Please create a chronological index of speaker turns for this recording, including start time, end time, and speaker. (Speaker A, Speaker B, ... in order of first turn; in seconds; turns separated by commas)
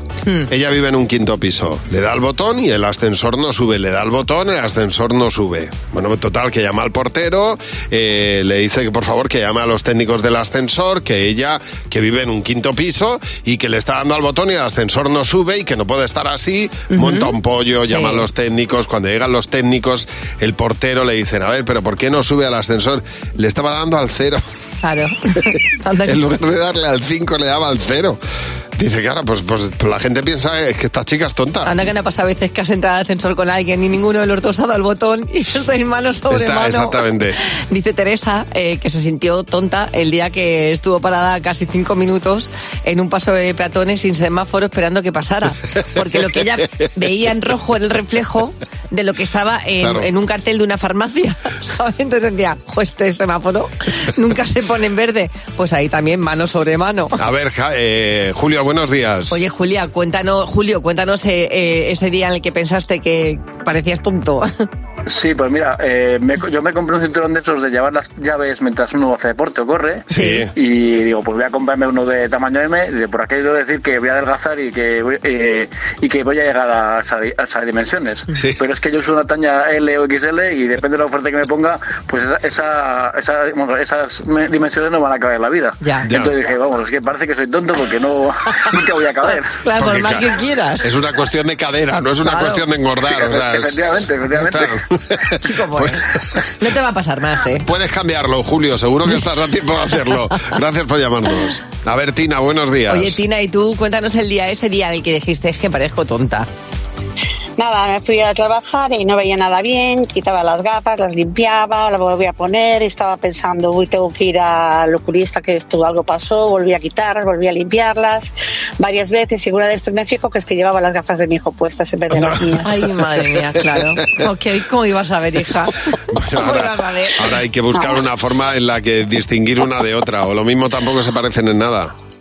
Speaker A: 0.5-24.4, Speaker B: 16.9-17.3, Speaker B: 17.8-18.2, Speaker B: 24.8-26.2, Speaker A: 26.1-28.2, Speaker A: 28.8-31.8, Speaker B: 31.6-37.0, Speaker A: 36.3-37.4, Speaker B: 37.6-57.2, Speaker A: 49.8-50.1, Speaker A: 57.2-59.4, Speaker B: 59.3-64.5, Speaker C: 65.1-89.5, Speaker A: 70.1-70.5, Speaker B: 70.1-70.5, Speaker B: 85.8-86.1, Speaker A: 86.1-86.3, Speaker B: 89.3-90.9, Speaker A: 89.8-90.2, Speaker A: 90.8-96.5, Speaker B: 92.2-92.6, Speaker C: 93.1-94.8, Speaker B: 95.4-96.0, Speaker B: 96.6-97.7, Speaker A: 97.6-103.2, Speaker B: 102.9-106.5, Speaker D: 107.6-122.8, Speaker A: 122.1-122.6, Speaker B: 122.6-125.8, Speaker A: 126.1-131.9, Speaker B: 126.3-127.2